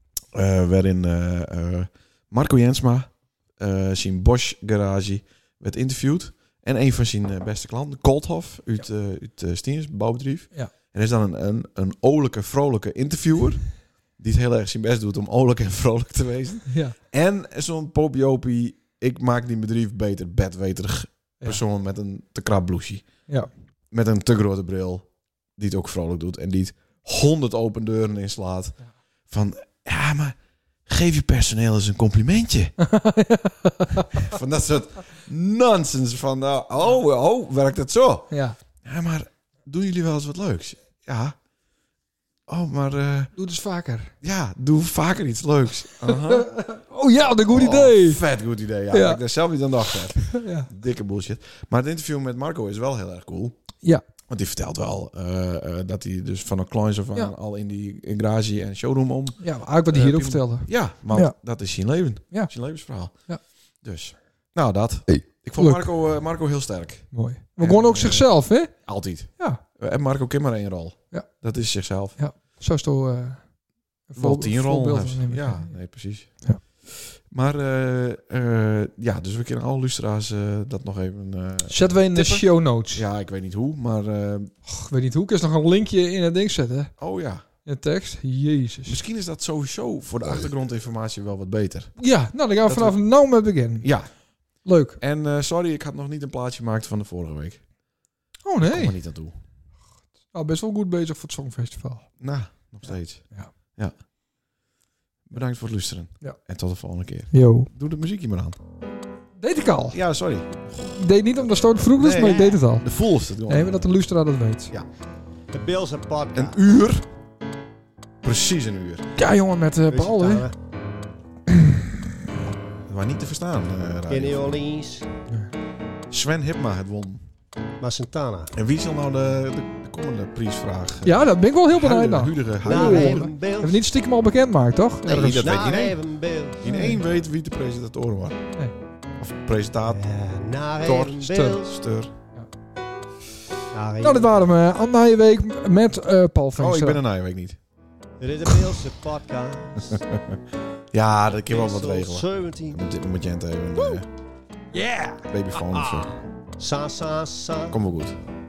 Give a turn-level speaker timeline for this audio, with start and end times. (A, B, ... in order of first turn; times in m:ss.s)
0:00.3-0:13.6 A
0:14.2-0:23.1 A
0:16.7-0:17.0 B
0:23.9-0:25.1 A
0:25.6-0:28.8 A
0:29.3-0:32.7 A
0:32.8-0:34.3 B
0:34.1-0:38.3 A
0:38.3-0:38.6 B
0:38.8-0:41.4 A
0:42.5-0:43.3 A
0:43.4-0:44.1 B
0:44.2-0:46.5 A
0:46.0-0:48.2 B
0:47.5-0:53.6 A
0:48.9-0:49.2 B
0:50.2-0:50.7 B
0:54.3-1:03.2 A
0:59.4-1:01.4 B
1:03.8-1:12.2 A
1:05.6-1:05.9 B
1:07.1-1:08.7 B
1:12.2-1:13.4 B
1:14.1-1:15.8 B
1:14.2-1:24.5 A
1:21.7-1:23.0 B
1:24.7-1:26.9 B
1:27.0-1:27.4 A
1:27.6-1:29.0 B
1:28.9-1:31.9 A
1:32.0-1:33.9 B
1:32.7-1:33.0 A
1:33.8-1:34.1 A
1:34.6-1:35.0 B
1:35.0-1:37.6 A
1:38.4-1:39.0 B
1:38.6-1:39.3 A
1:40.3-1:42.1 B
1:42.2-1:43.2 A
1:45.3-1:48.6 A
1:47.3-1:47.7 B
1:49.4-1:50.0 B
1:49.9-1:54.0 A
1:50.8-1:52.9 B
1:52.2-1:52.6 C
1:53.5-1:54.7 B
1:55.5-1:56.6 C
1:56.3-1:57.1 A
1:58.2-1:59.1 A
1:59.2-2:00.5 B
1:59.9-2:00.6 C
2:01.5-2:01.8 B
2:02.9-2:04.6 A
2:04.1-2:05.1 C
2:06.1-2:07.2 A
2:07.8-2:08.5 C
2:08.5-2:13.2 A
2:11.0-2:15.5 B
2:12.6-2:13.8 C
2:15.0-2:16.0 A
2:15.4-2:16.6 C
2:16.6-2:18.4 A
2:16.6-2:17.0 B
2:19.2-2:20.0 A
2:19.9-2:21.7 C
2:20.8-2:22.1 A
2:23.7-2:24.4 C
2:24.0-2:27.0 B
2:26.6-2:27.6 A
2:28.2-2:30.1 C
2:29.9-2:30.4 A
2:30.9-2:34.1 A
2:31.5-2:32.8 C
2:34.7-2:35.3 B
2:35.3-2:36.1 A
2:36.6-2:37.8 C
2:37.7-2:38.2 A